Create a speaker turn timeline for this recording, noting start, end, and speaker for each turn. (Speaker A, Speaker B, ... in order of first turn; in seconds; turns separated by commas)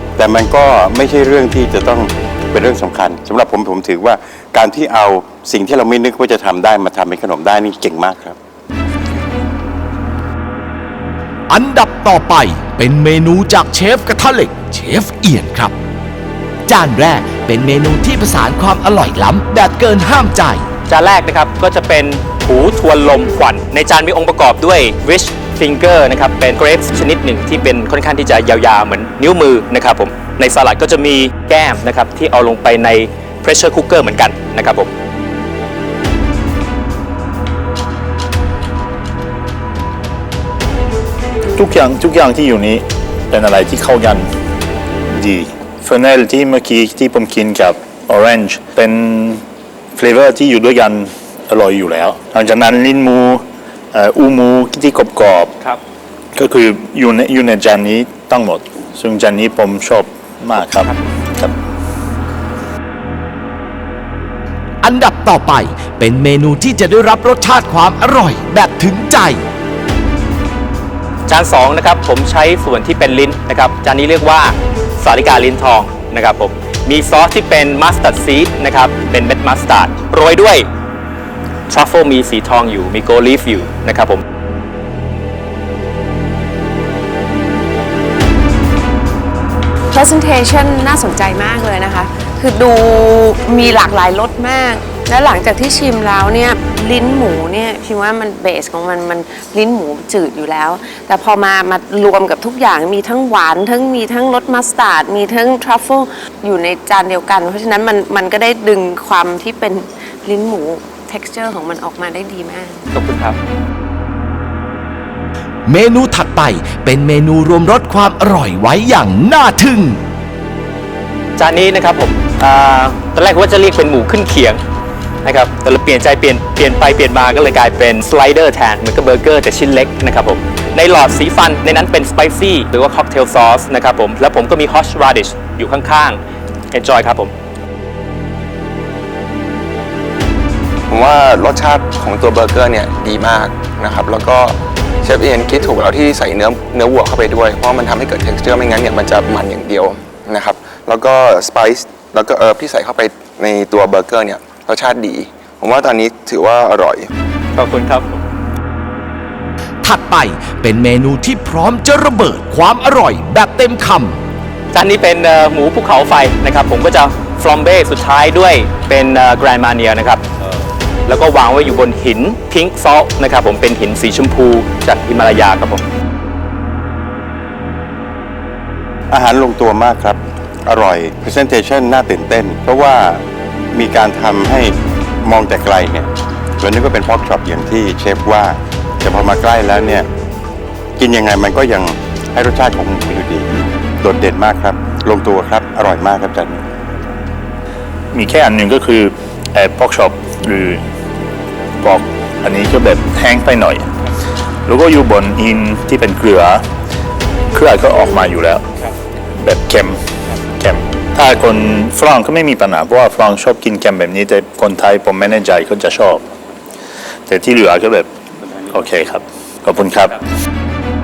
Speaker A: 0.2-8.4, Speaker B: 11.5-15.7, Speaker B: 16.7-20.6, Speaker C: 20.9-34.9, Speaker D: 41.6-44.3, Speaker D: 45.1-49.4, Speaker D: 50.0-53.4, Speaker D: 53.9-55.5, Speaker D: 56.4-61.5, Speaker B: 64.8-69.4, Speaker C: 71.3-80.7, Speaker C: 81.7-84.2, Speaker E: 89.9-112.8, Speaker C: 112.9-113.4, Speaker B: 115.7-120.0, Speaker C: 121.4-124.6, Speaker C: 125.2-136.2, Speaker C: 136.7-137.3, Speaker F: 140.9-157.1, Speaker C: 157.6-158.2, Speaker B: 159.8-164.2, Speaker C: 164.7-170.2, Speaker C: 171.1-175.9, Speaker A: 179.1-186.1, Speaker A: 186.6-190.1, Speaker A: 191.0-196.6, Speaker D: 198.1-200.8, Speaker D: 201.8-203.9, Speaker D: 204.7-206.6, Speaker D: 207.5-208.6, Speaker D: 209.4-210.0, Speaker D: 210.6-216.2, Speaker D: 217.3-218.1, Speaker D: 218.7-220.2